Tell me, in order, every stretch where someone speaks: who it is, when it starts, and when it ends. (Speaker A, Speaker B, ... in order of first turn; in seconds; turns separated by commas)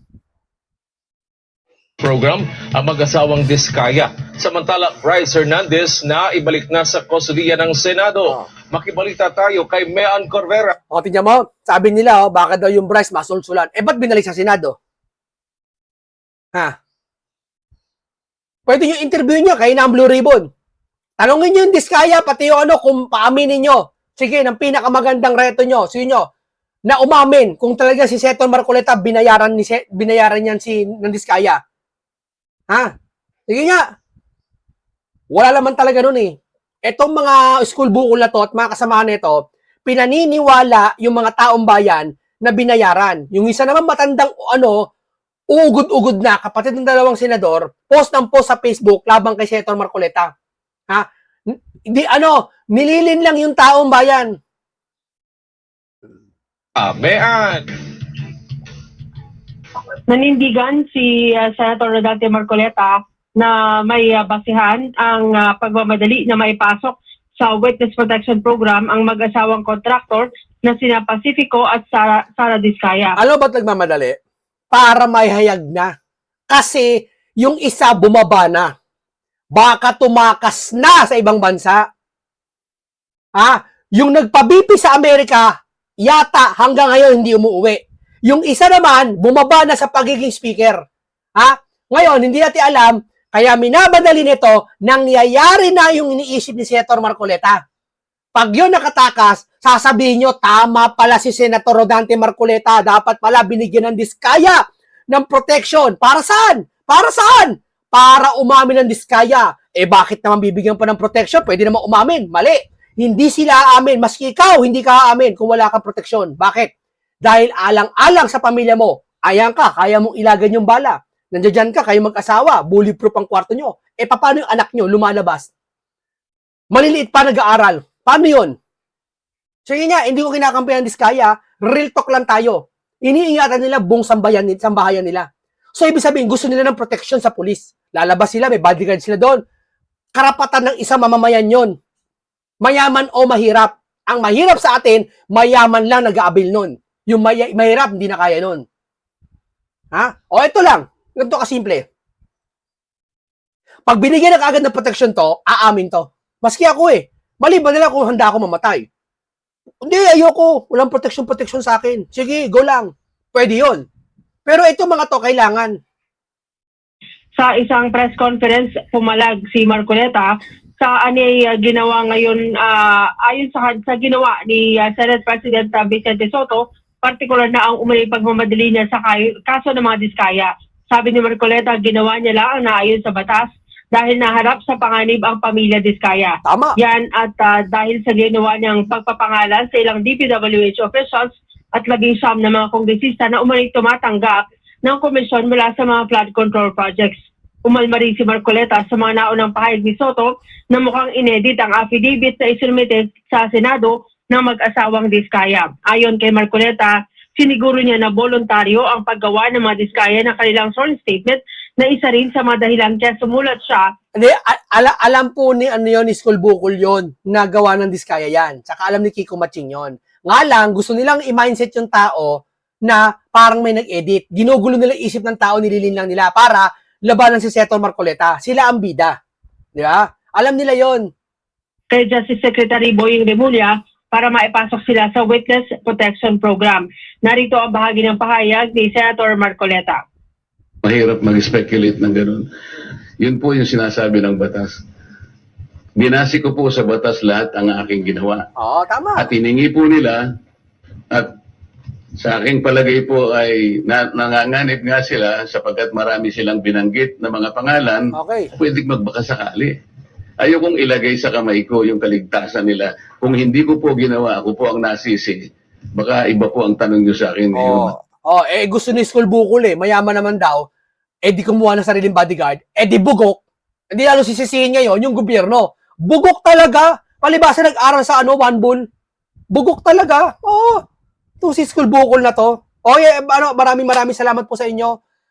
Speaker A: 2.0-10.8, Speaker B: 10.9-14.8, Speaker B: 18.7-20.5, Speaker B: 21.2-26.3, Speaker B: 26.9-31.6, Speaker B: 33.5-33.8, Speaker B: 35.3-36.3, Speaker B: 36.9-44.8, Speaker B: 45.5-50.3, Speaker B: 50.9-54.3, Speaker A: 56.8-57.7, Speaker C: 60.1-73.2, Speaker B: 73.2-74.2, Speaker B: 74.7-75.9, Speaker B: 76.5-78.7, Speaker B: 79.5-81.8, Speaker B: 83.4-85.5, Speaker B: 86.0-90.8, Speaker B: 91.4-97.6, Speaker B: 98.4-116.7, Speaker B: 117.3-125.5, Speaker B: 126.7-128.6, Speaker B: 129.7-139.4, Speaker B: 140.2-141.7, Speaker B: 142.6-148.6, Speaker B: 149.9-151.8, Speaker B: 153.9-158.8, Speaker B: 159.8-163.8, Speaker B: 164.5-165.7, Speaker C: 167.4-213.9, Speaker B: 186.5-186.8, Speaker B: 214.2-229.2, Speaker B: 229.8-231.1, Speaker C: 231.9-240.0, Speaker D: 240.8-242.5, Speaker D: 243.2-244.8, Speaker D: 246.0-248.5, Speaker B: 248.6-249.3, Speaker D: 249.2-250.3, Speaker D: 252.2-259.8, Speaker B: 258.1-258.5, Speaker D: 260.4-267.9, Speaker B: 267.6-270.6, Speaker B: 271.3-273.4, Speaker B: 273.9-278.8, Speaker B: 279.5-280.8, Speaker B: 281.4-285.0